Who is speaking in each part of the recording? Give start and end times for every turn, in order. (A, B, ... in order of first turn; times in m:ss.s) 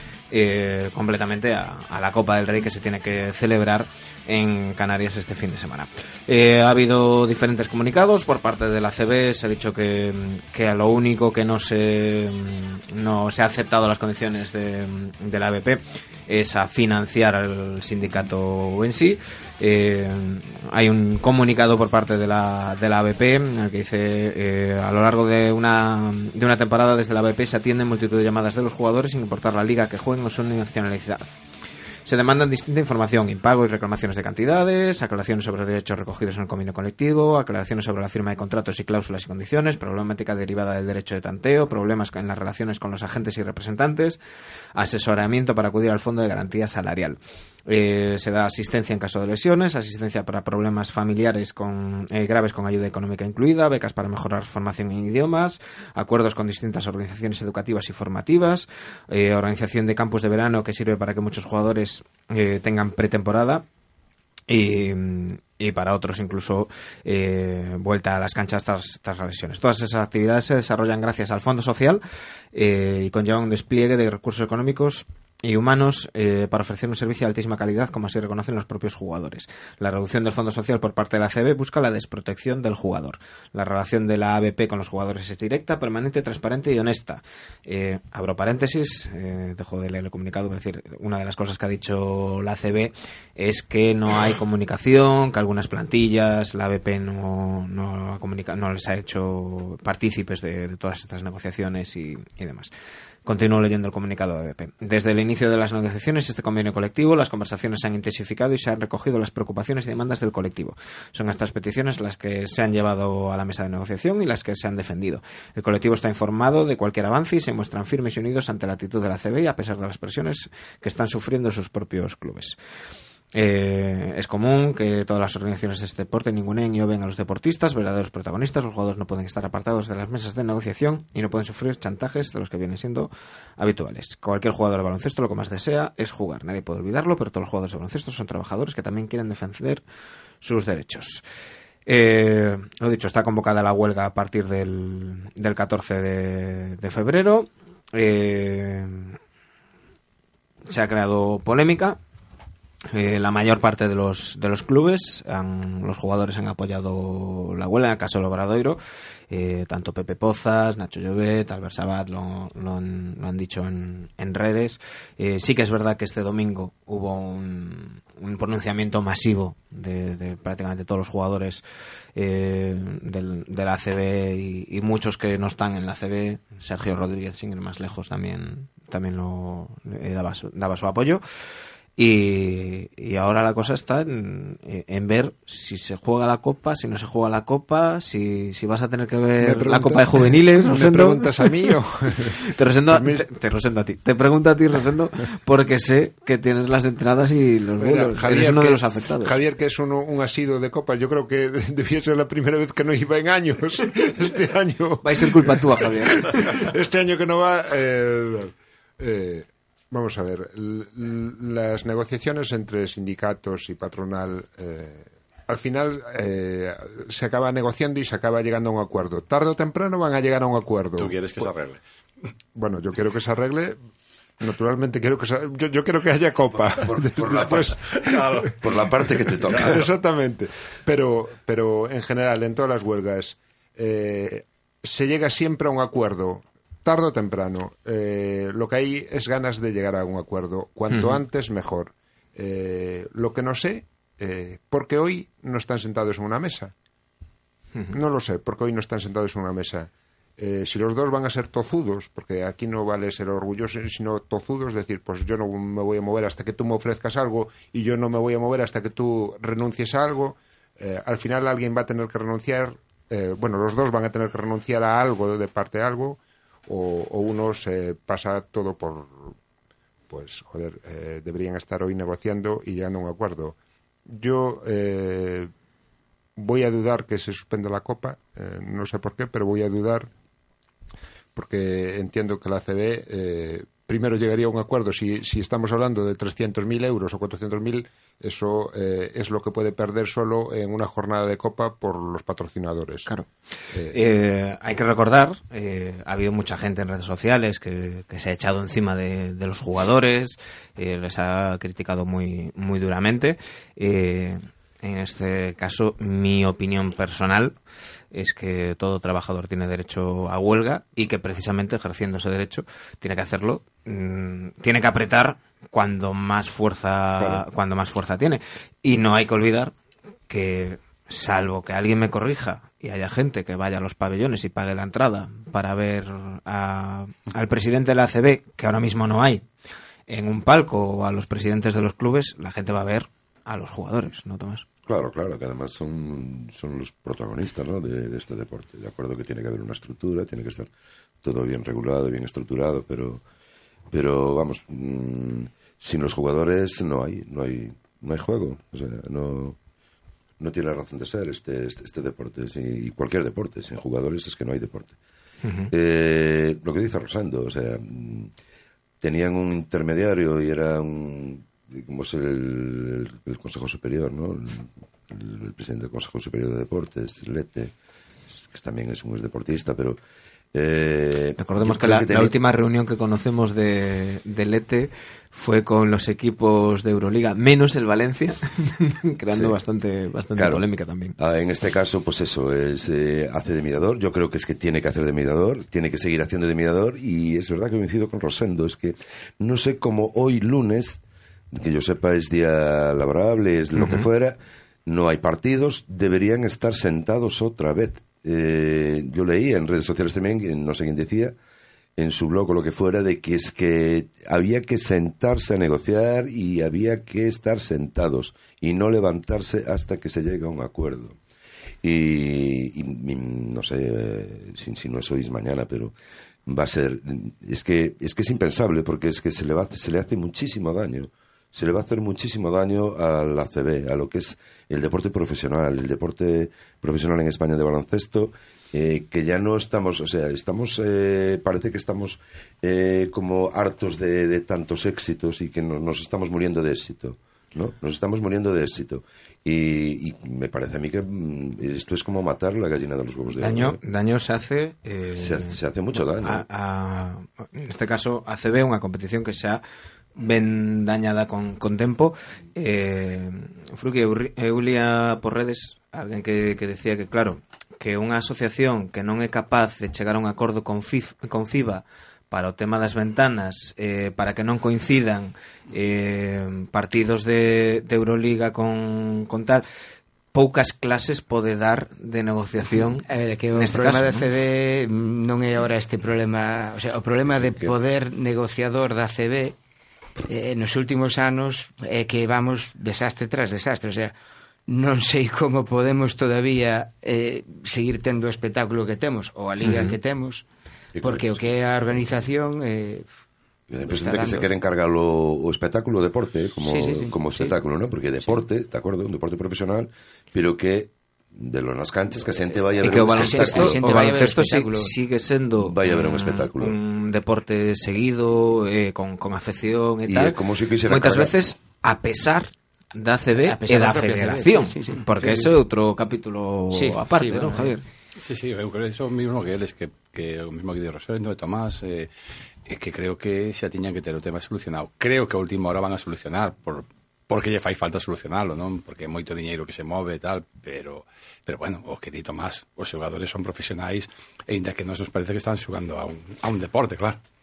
0:00.3-0:31.4 A
0:32.0-0:44.2 A
0:44.8-1:03.6 A
1:04.5-1:12.0 A
1:12.5-1:42.7 A
1:43.3-2:02.6 A
2:03.4-2:19.8 A
2:20.4-2:21.2 A
2:21.9-2:29.2 A
2:30.7-2:32.0 A
2:32.9-2:51.6 A
2:52.2-3:01.2 A
3:02.0-3:11.8 A
3:09.4-3:13.2 B
3:12.4-3:19.4 A
3:17.8-3:41.2 B
3:25.0-3:26.2 A
3:41.0-3:41.8 C
3:42.6-3:43.8 B
3:44.4-3:48.6 B
3:46.8-3:49.9 D
3:49.4-4:06.7 B
4:00.9-4:01.2 A
4:07.9-4:29.3 B
4:30.1-4:33.6 B
4:34.1-4:35.5 B
4:36.4-4:40.1 B
4:41.4-4:53.1 B
4:53.7-4:54.0 B
4:53.9-5:07.6 A
5:08.1-5:19.7 A
5:17.2-5:17.4 D
5:20.3-5:29.5 A
5:30.1-5:34.7 A
5:34.9-5:40.7 D
5:41.2-5:43.2 D
5:43.9-5:49.6 D
5:50.4-5:55.0 D
5:55.4-5:55.7 A
5:55.7-5:58.3 D
5:59.0-6:07.7 D
6:08.3-6:10.0 D
6:10.5-6:12.3 D
6:11.4-6:21.2 A
6:19.3-6:19.6 D
6:20.4-6:20.6 D
6:21.2-6:31.0 D
6:31.5-6:41.4 D
6:33.8-6:34.1 A
6:42.0-6:51.2 D
6:51.8-6:55.9 D
6:56.5-7:23.8 D
7:23.4-7:29.6 A
7:25.2-7:26.4 D
7:30.2-7:49.6 A
7:50.3-7:54.3 A
7:53.0-7:59.6 E
7:57.4-7:57.8 D
8:00.3-8:04.1 E
8:04.7-8:10.5 E
8:09.6-8:10.0 A
8:11.0-8:12.1 D
8:11.0-8:13.1 E
8:13.7-8:23.9 D
8:13.8-8:14.5 E
8:16.6-8:17.6 E
8:22.8-8:37.8 A
8:23.0-8:24.9 E
8:25.6-8:26.8 D
8:30.1-8:31.4 D
8:33.5-8:35.1 E
8:36.7-8:37.8 E
8:38.2-8:42.1 C
8:42.7-8:57.2 C